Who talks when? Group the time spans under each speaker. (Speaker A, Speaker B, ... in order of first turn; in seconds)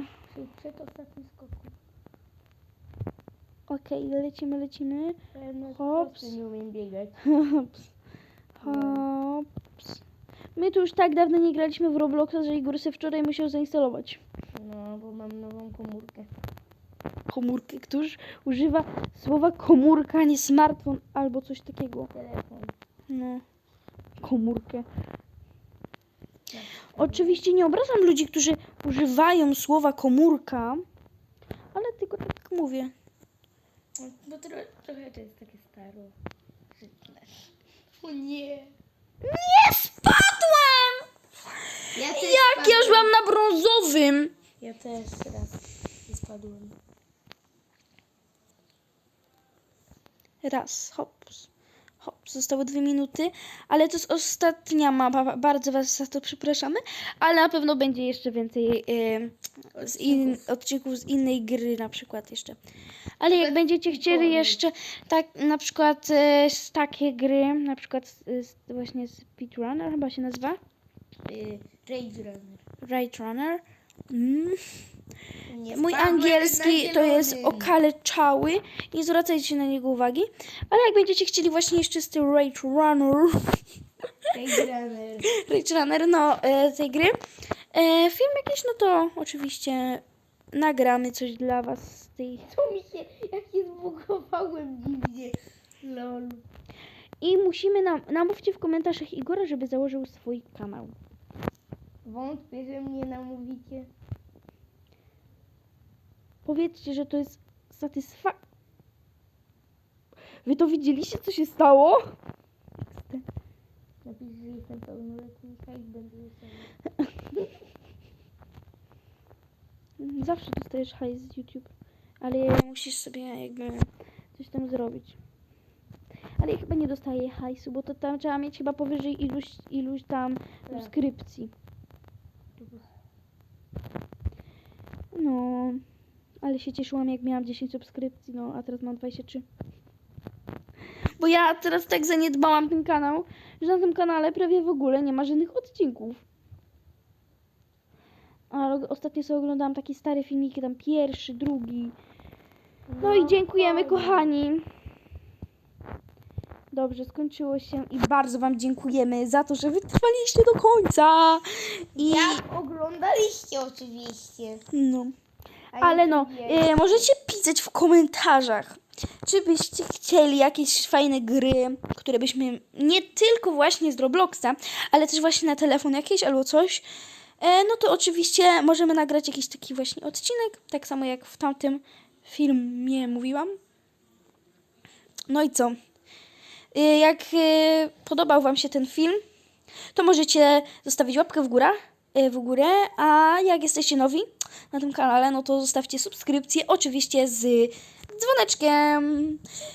Speaker A: 0.3-1.8, 5.3-7.2, 8.6-9.1, 14.6-16.3, 22.1-22.7, 26.5-27.4, 34.0-36.1, 36.7-37.5, 38.0-38.7, 42.0-43.1, 44.6-45.6, 46.1-46.8, 59.7-60.5, 63.3-64.6, 71.2-72.6, 75.5-77.7, 84.3-85.3, 92.5-96.4, 102.0-103.9, 114.0-116.7, 130.7-130.9, 132.6-132.9, 152.9-154.3, 162.0-164.6, 165.7-167.1
Speaker B: 3.7-5.2, 5.7-6.3, 7.3-7.9, 8.6-10.0, 10.6-14.2, 17.3-22.1, 23.1-23.4, 24.2-24.9, 27.0-30.9, 31.7-32.9, 39.2-41.1, 42.0-44.3, 50.4-51.5, 52.0-62.6, 63.2-70.6, 72.8-74.6, 75.7-83.6, 85.2-87.2, 87.7-92.5, 97.2-101.0, 106.5-108.4, 110.4-112.0, 112.9-113.2, 120.0-125.2, 126.4-131.5, 135.1-135.8, 136.4-139.4, 141.2-146.2, 148.5-151.9, 153.0-154.7, 156.7-162.4, 164.7-165.2, 165.8-176.8, 177.4-183.5, 185.3-185.8, 186.7-189.2, 189.9-199.4